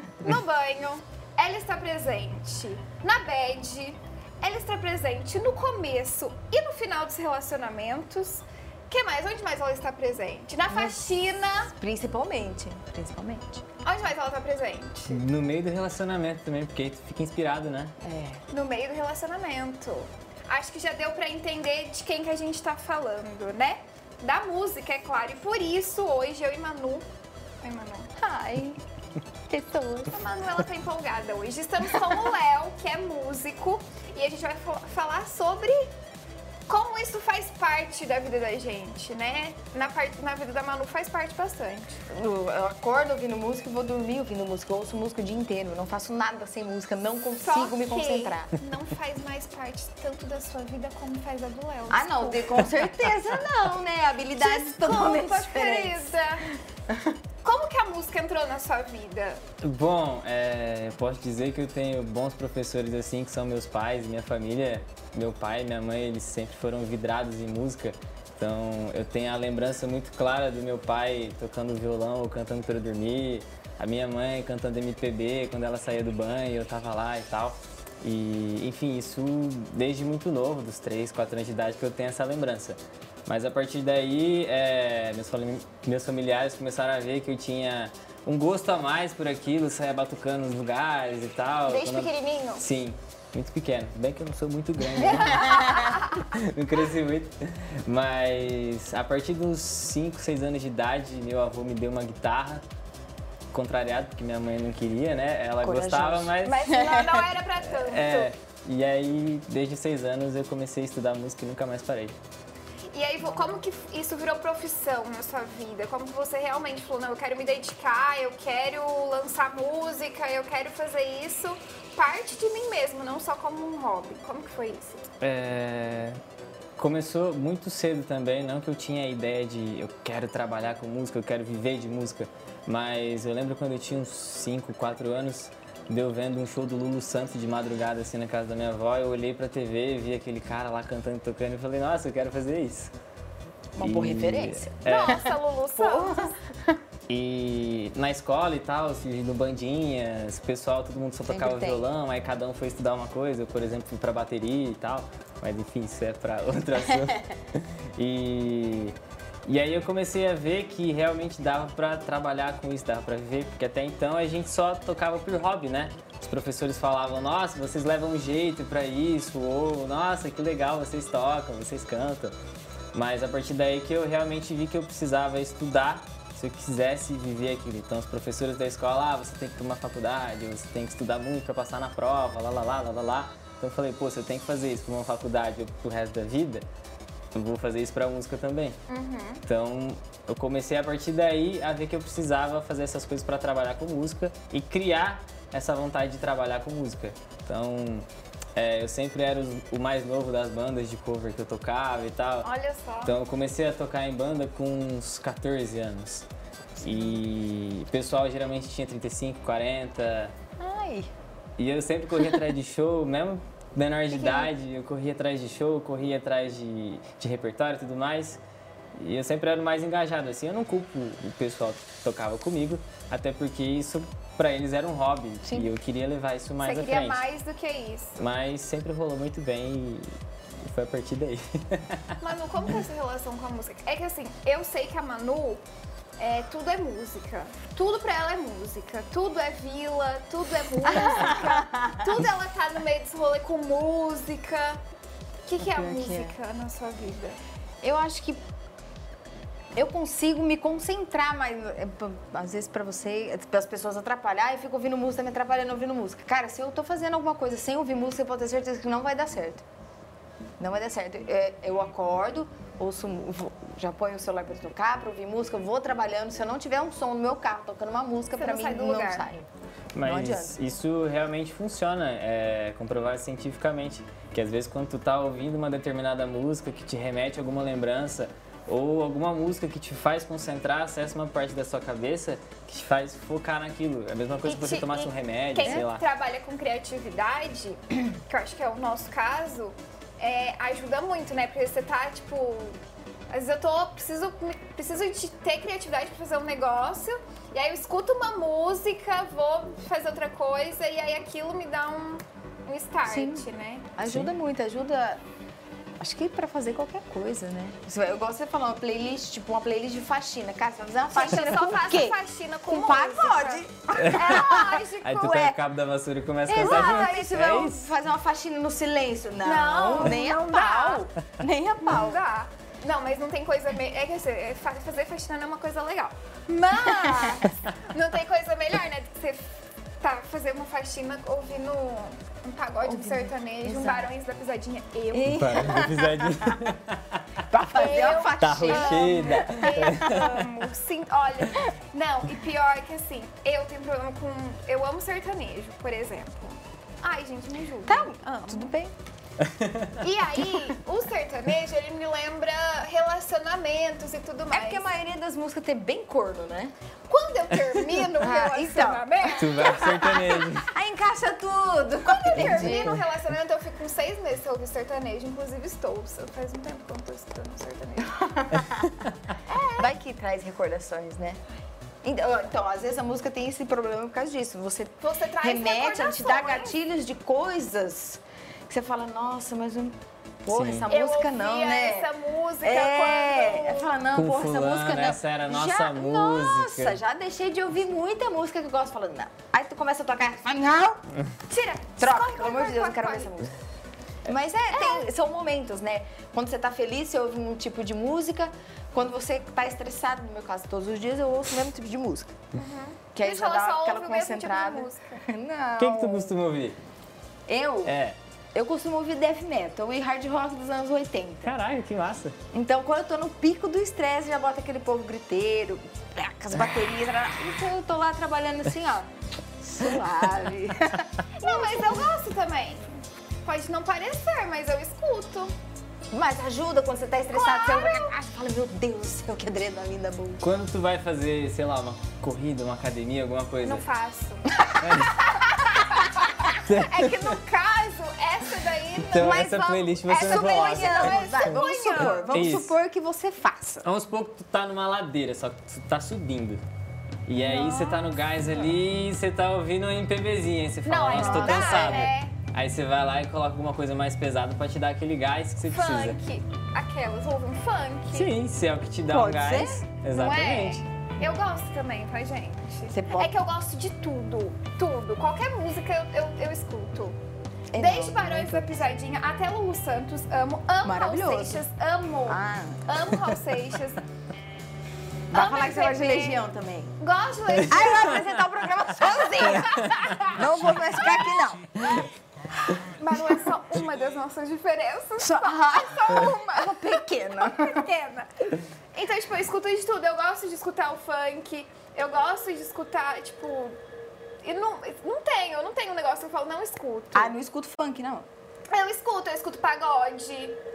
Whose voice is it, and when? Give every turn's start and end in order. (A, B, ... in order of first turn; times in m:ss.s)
0:00.2-0:11.7 A
0:10.7-0:11.0 B
0:11.8-0:13.6 B
0:13.8-0:15.2 A
0:15.1-0:17.9 C
0:18.0-0:18.4 B
0:18.5-0:27.1 A
0:27.6-0:28.1 A
0:28.2-0:28.8 B
0:29.5-0:30.1 B
0:30.1-0:35.9 A
0:36.7-0:42.0 A
0:42.1-0:48.5 B
0:47.4-0:52.6 A
0:51.9-0:56.1 B
0:54.4-0:56.4 A
0:56.9-0:57.2 B
0:57.4-0:59.4 A
0:59.6-1:42.6 C
1:31.7-1:32.6 A
1:35.0-1:35.9 B
1:35.4-1:36.1 A
1:43.5-1:46.7 C
1:45.6-1:47.2 B
1:46.4-1:48.3 A
1:47.7-1:52.2 C
1:52.9-2:05.0 A
2:05.2-2:06.2 C
2:06.8-2:22.9 C
2:23.8-2:26.8 B
2:23.8-2:25.2 C
2:24.8-2:26.4 A
2:27.1-2:52.3 C
2:31.3-2:31.9 B
2:52.9-3:06.6 C
3:07.3-3:08.8 C
3:08.9-3:09.4 A
3:09.5-3:22.5 C
3:22.4-3:23.2 A
3:23.0-3:26.3 C
3:26.8-3:27.2 B
3:26.8-3:30.3 C
3:30.6-3:31.1 B
3:31.6-3:38.4 C
3:34.1-3:34.5 B
3:39.0-3:47.3 C
3:45.4-3:45.7 B
3:46.6-3:48.2 A
3:48.2-3:52.2 C
3:52.2-3:55.6 A
3:56.2-4:04.8 A
4:00.8-4:02.1 B
4:05.5-4:07.4 A
4:05.6-4:06.4 B
4:07.8-4:08.4 B
4:09.8-4:19.6 B
4:20.6-4:29.5 B
4:28.4-4:29.3 A
4:29.9-4:46.0 C
4:30.0-4:30.6 B
4:44.4-4:52.8 A
4:53.3-5:03.9 A
5:03.1-5:03.4 B
5:04.0-5:05.2 B
5:04.0-5:04.3 C
5:06.0-5:14.6 B
5:11.1-5:15.6 A
5:14.0-5:17.9 C
5:16.5-5:22.2 B
5:16.5-5:17.7 A
5:19.4-5:21.1 A
5:19.9-5:20.2 C
5:21.8-5:35.7 A
5:26.9-5:27.4 B
5:32.8-5:34.1 B
5:35.1-5:36.6 B
5:35.2-5:37.2 C
5:37.5-5:40.3 B
5:37.6-5:48.7 A
5:38.4-5:40.4 C
5:47.9-5:49.0 B
5:49.4-5:50.0 C
5:50.0-5:54.9 A
5:50.4-5:50.7 B
5:54.5-5:56.7 B
5:57.1-6:00.3 A
5:58.2-6:03.0 B
5:59.4-6:00.7 C
6:02.0-6:08.2 A
6:02.4-6:03.0 C
6:08.0-6:09.0 B
6:09.5-6:09.9 A
6:09.8-6:11.4 B
6:12.0-6:31.0 B
6:15.0-6:16.7 A
6:20.5-6:20.9 C
6:20.9-6:23.9 A
6:24.2-6:27.0 C
6:31.5-6:33.3 A
6:32.0-6:33.5 B
6:34.3-6:42.3 B
6:34.7-6:35.1 A
6:42.6-6:45.2 A
6:43.1-6:46.4 B
6:45.8-6:46.8 C
6:47.5-6:48.0 B
6:47.8-6:48.2 C
6:48.5-6:51.6 B
6:51.4-6:52.4 C
6:52.5-6:59.1 B
6:59.6-7:01.6 B
7:01.4-7:05.5 A
7:06.1-7:10.4 B
7:07.3-7:08.1 A
7:10.4-7:13.8 C
7:13.6-7:22.4 A
7:14.6-7:15.0 B
7:14.8-7:15.2 C
7:16.6-7:17.4 C
7:19.0-7:21.2 C
7:20.2-7:23.9 B
7:22.0-7:22.8 C
7:23.8-7:26.6 C
7:27.3-7:36.2 C
7:27.4-7:28.2 A
7:30.8-7:32.3 A
7:31.1-7:32.1 B
7:35.6-7:38.3 A
7:38.1-7:40.8 C
7:39.1-7:39.8 B
7:40.1-7:47.2 A
7:42.9-7:43.4 B
7:47.7-7:48.8 B
7:47.8-7:54.0 A
7:50.8-7:51.6 B
7:52.3-7:53.0 B
7:55.3-7:56.9 B
7:55.3-7:56.4 A
7:57.0-8:02.0 A
7:57.6-7:58.0 C
7:57.7-7:59.7 B
7:59.6-8:00.2 C
8:00.3-8:01.7 B
8:02.9-8:13.8 A
8:05.2-8:07.8 B
8:14.4-8:17.3 A
8:17.1-8:18.3 B
8:18.7-8:20.6 A